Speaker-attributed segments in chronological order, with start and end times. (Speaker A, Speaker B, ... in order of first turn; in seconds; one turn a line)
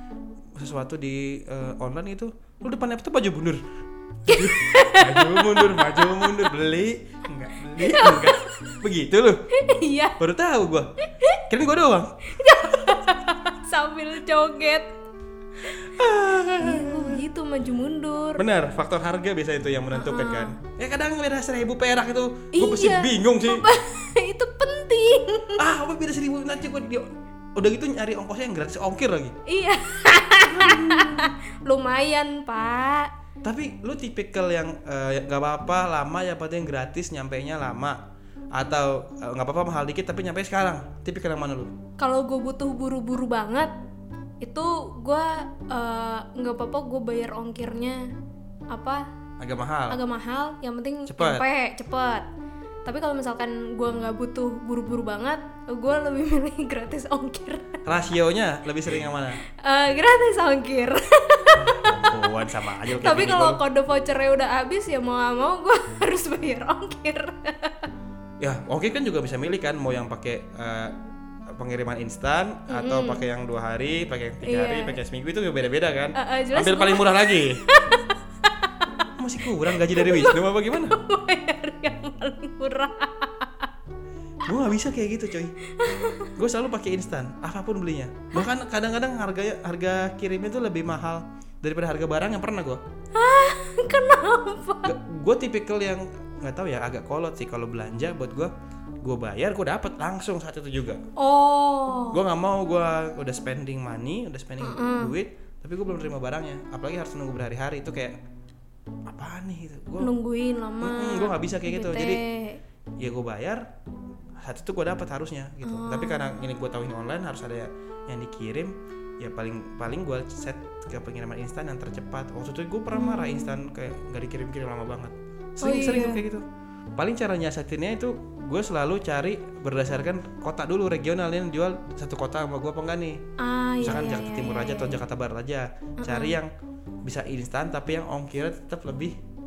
Speaker A: 0.6-3.6
Speaker A: 4.2-9.4
Speaker B: 4.3-6.5
Speaker B: 7.8-8.7
Speaker B: 9.6-10.2
Speaker A: 10.2-10.9
Speaker B: 11.1-11.4
Speaker A: 11.5-12.9
Speaker B: 12.3-14.9
Speaker A: 15.8-17.2
Speaker B: 16.6-18.4
Speaker A: 18.4-23.7
Speaker B: 19.9-20.6
Speaker B: 22.5-25.6
Speaker A: 25.6-29.3
Speaker B: 29.5-33.1
Speaker A: 30.5-31.3
Speaker A: 33.4-38.0
Speaker A: 38.5-41.7
Speaker B: 42.0-43.7
Speaker B: 44.4-48.0
Speaker B: 48.7-49.0
Speaker A: 49.4-50.0
Speaker B: 49.9-52.3
Speaker A: 51.1-51.5
Speaker B: 52.9-57.8
Speaker A: 57.9-59.4
Speaker B: 59.6-62.1
Speaker A: 61.6-63.6
Speaker B: 63.0-67.9
Speaker A: 68.4-71.0
Speaker A: 71.5-77.6
Speaker B: 72.7-73.2
Speaker B: 74.4-75.0
Speaker B: 76.2-79.0
Speaker A: 79.2-81.0
Speaker B: 79.7-83.7
Speaker A: 84.5-85.5
Speaker B: 85.7-86.3
Speaker A: 86.3-92.8
Speaker B: 93.2-94.9
Speaker A: 94.8-101.0
Speaker B: 101.2-102.2
Speaker A: 102.0-108.2
Speaker B: 104.6-105.1
Speaker A: 109.1-110.1
Speaker B: 110.0-112.6
Speaker A: 110.8-112.2
Speaker A: 113.0-113.6
Speaker A: 114.4-126.5
Speaker B: 115.6-116.3
Speaker B: 122.9-123.6
Speaker B: 125.6-126.2
Speaker A: 127.0-133.2
Speaker B: 133.4-135.0
Speaker A: 133.8-136.5
Speaker B: 136.0-136.4
Speaker A: 137.0-139.2